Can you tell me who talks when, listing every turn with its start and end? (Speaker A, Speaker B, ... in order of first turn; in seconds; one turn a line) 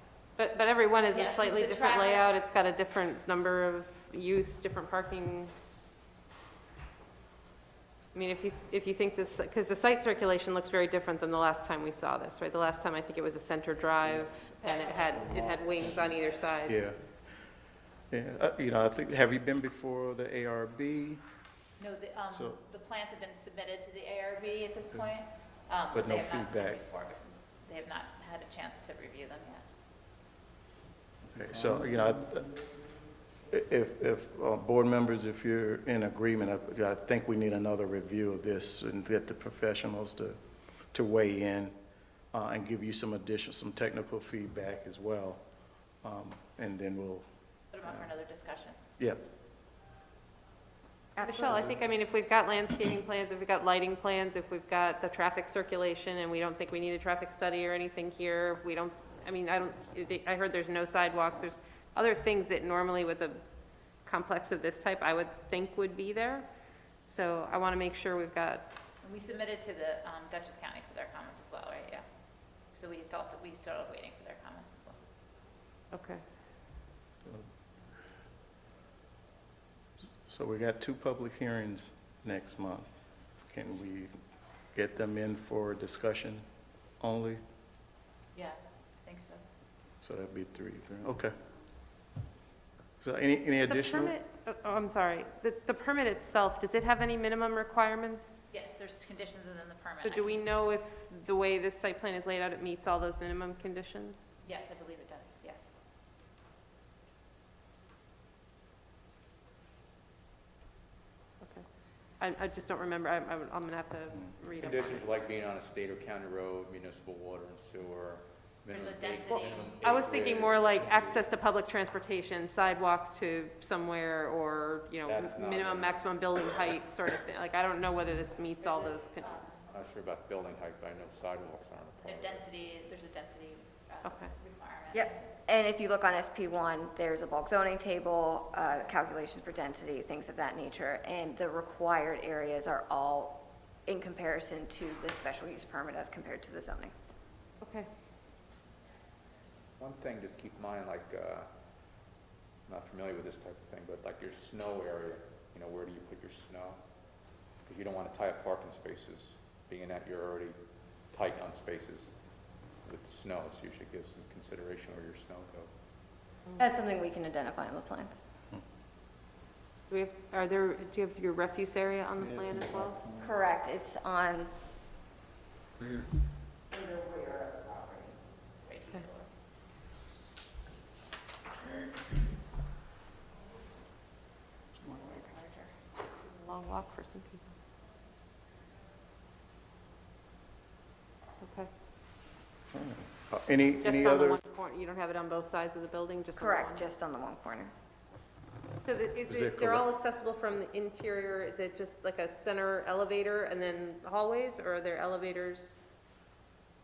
Speaker A: 0.4-5.5
Speaker B: 1.1-2.3
Speaker A: 8.1-16.8
Speaker B: 14.6-16.4
Speaker C: 16.6-17.5
Speaker C: 18.1-21.2
Speaker B: 21.8-29.6
Speaker C: 22.3-22.6
Speaker C: 25.9-26.8
Speaker C: 31.3-32.6
Speaker C: 33.5-40.4
Speaker C: 40.9-41.8
Speaker C: 42.3-45.4
Speaker C: 46.0-47.3
Speaker B: 47.7-48.8
Speaker D: 51.2-51.8
Speaker A: 51.2-63.4
Speaker A: 64.0-66.5
Speaker A: 67.0-68.7
Speaker B: 69.0-72.0
Speaker B: 72.7-75.0
Speaker A: 75.9-76.2
Speaker C: 80.0-82.9
Speaker C: 83.5-84.1
Speaker C: 84.7-86.5
Speaker C: 87.0-87.4
Speaker B: 88.3-89.4
Speaker C: 90.0-91.3
Speaker C: 93.0-94.2
Speaker A: 93.7-98.5
Speaker B: 98.5-100.4
Speaker A: 100.0-104.3
Speaker B: 104.4-105.7
Speaker A: 112.2-115.0
Speaker E: 114.6-121.2
Speaker B: 118.7-120.0
Speaker A: 119.3-129.4
Speaker E: 125.0-126.0
Speaker B: 128.6-129.7
Speaker E: 129.7-132.4
Speaker B: 132.0-135.2
Speaker A: 134.0-134.3
Speaker D: 134.9-146.9
Speaker A: 147.6-147.9
Speaker E: 149.8-151.5
Speaker E: 152.7-156.8
Speaker E: 157.7-160.6
Speaker E: 161.1-162.1
Speaker E: 162.8-165.7
Speaker D: 166.6-168.2
Speaker A: 169.9-173.0
Speaker E: 172.2-173.3
Speaker D: 173.2-174.5
Speaker D: 176.7-178.2
Speaker B: 178.6-179.3
Speaker B: 184.9-185.6
Speaker A: 186.3-187.5
Speaker A: 191.4-191.7
Speaker C: 192.7-194.4
Speaker A: 193.8-196.8
Speaker D: 196.3-197.7
Speaker A: 198.8-205.8
Speaker C: 199.2-199.9